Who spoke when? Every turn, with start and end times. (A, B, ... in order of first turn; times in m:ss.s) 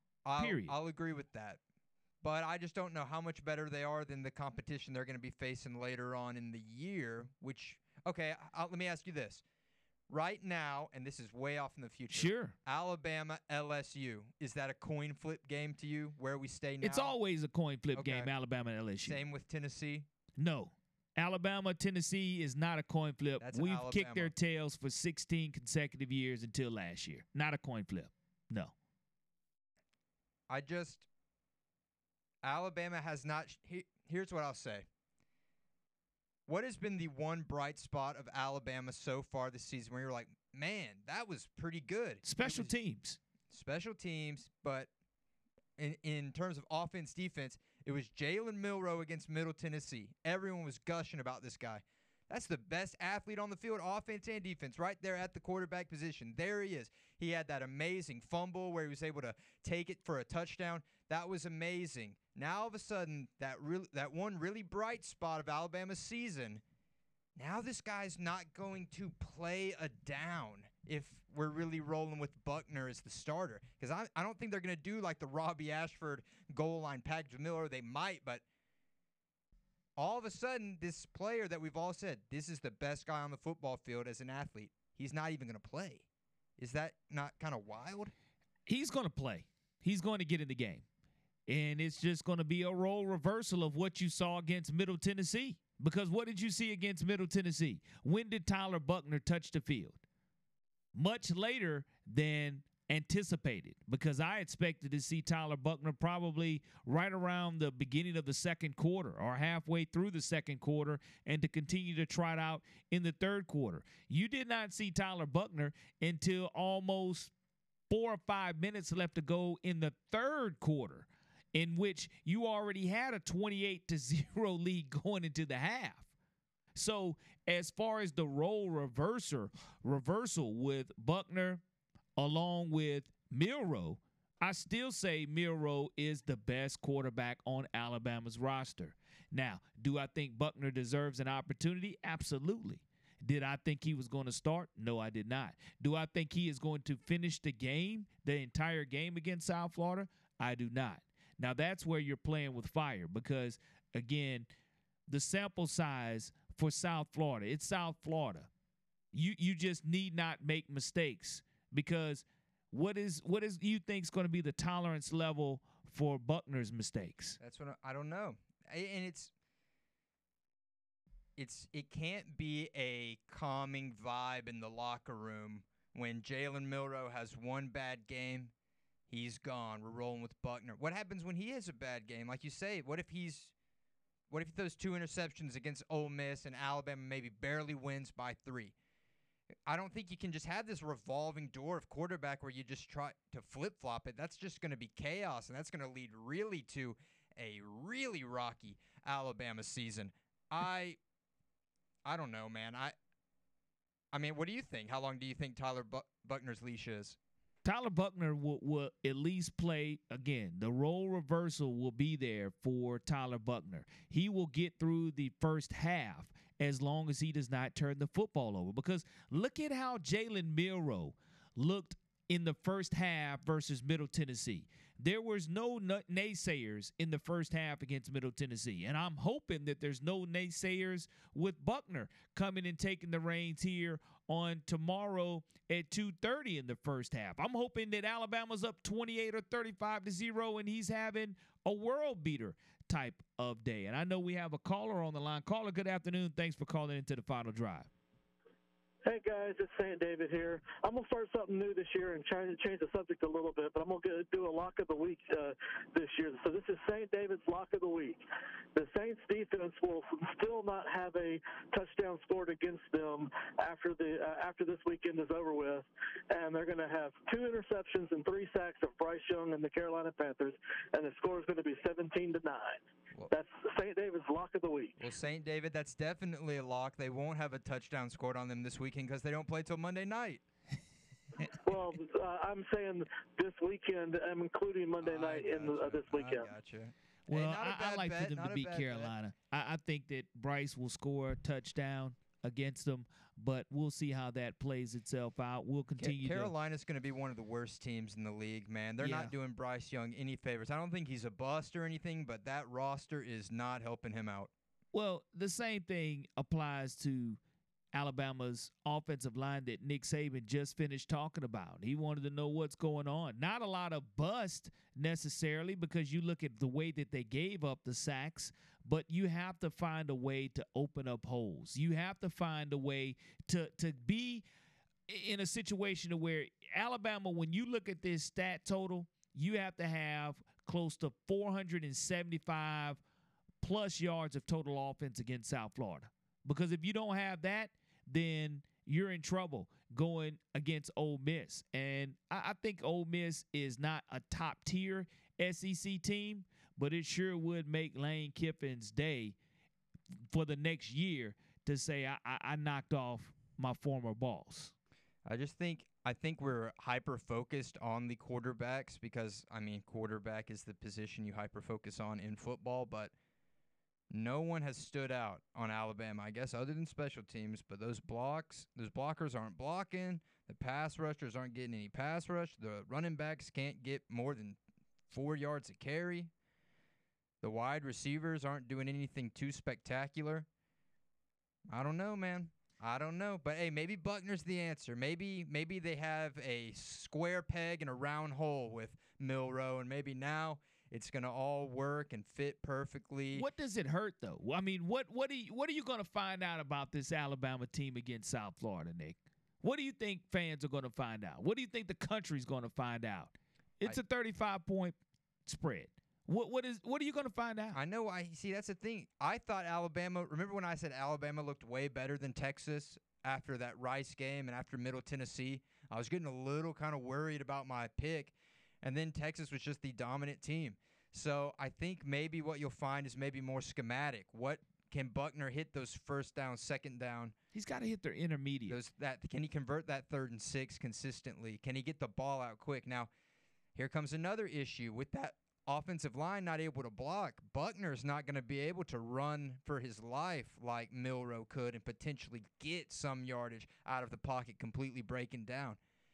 0:00.2-0:01.6 A
0:00.4-0:00.7 B
0:02.2-0:09.4 A
0:10.1-0:17.2 A
0:12.1-0:12.6 B
0:16.8-0:19.2 B
0:18.0-0:18.3 A
0:19.0-0:20.1 A
0:20.4-0:28.7 B
0:23.4-0:24.3 A
0:30.5-0:31.1 A
0:32.4-0:34.9 A
0:36.5-0:42.7 A
0:42.2-0:43.2 B
0:43.5-0:44.9 A
0:45.8-1:06.6 A
1:07.4-1:18.4 A
1:20.0-1:26.0 A
1:26.6-1:28.1 A
1:28.7-1:30.8 B
1:31.5-1:40.0 B
1:41.0-1:57.3 B
1:57.9-2:06.1 B
2:06.8-2:11.6 B
2:12.2-2:34.5 B
2:35.1-2:38.5 B
2:39.1-2:47.4 B
2:47.4-2:49.3 A
2:51.4-2:58.5 A
2:59.1-3:03.5 A
3:04.3-3:08.8 A
3:09.7-3:21.0 A
3:22.0-3:23.0 A
3:24.1-3:27.2 A
3:27.6-4:07.9 B
4:09.0-4:18.2 C
4:18.8-4:35.0 C
4:35.0-4:40.4 A
4:41.7-4:46.5 C
4:45.0-4:49.1 A
4:47.3-4:56.5 B
4:56.0-5:04.5 A
4:59.0-4:59.3 B
5:04.9-5:07.4 B
5:07.9-5:24.4 B
5:25.1-5:33.0 B
5:33.6-5:49.4 B
5:50.3-5:54.7 B
5:55.2-6:03.1 A
6:04.1-6:14.6 A
6:15.1-6:16.3 A
6:17.4-6:20.5 A
6:21.7-6:33.5 A
6:33.3-6:47.8 B
6:47.7-7:07.3 A
7:07.5-7:08.8 B
7:08.7-7:13.1 A
7:13.8-7:25.8 A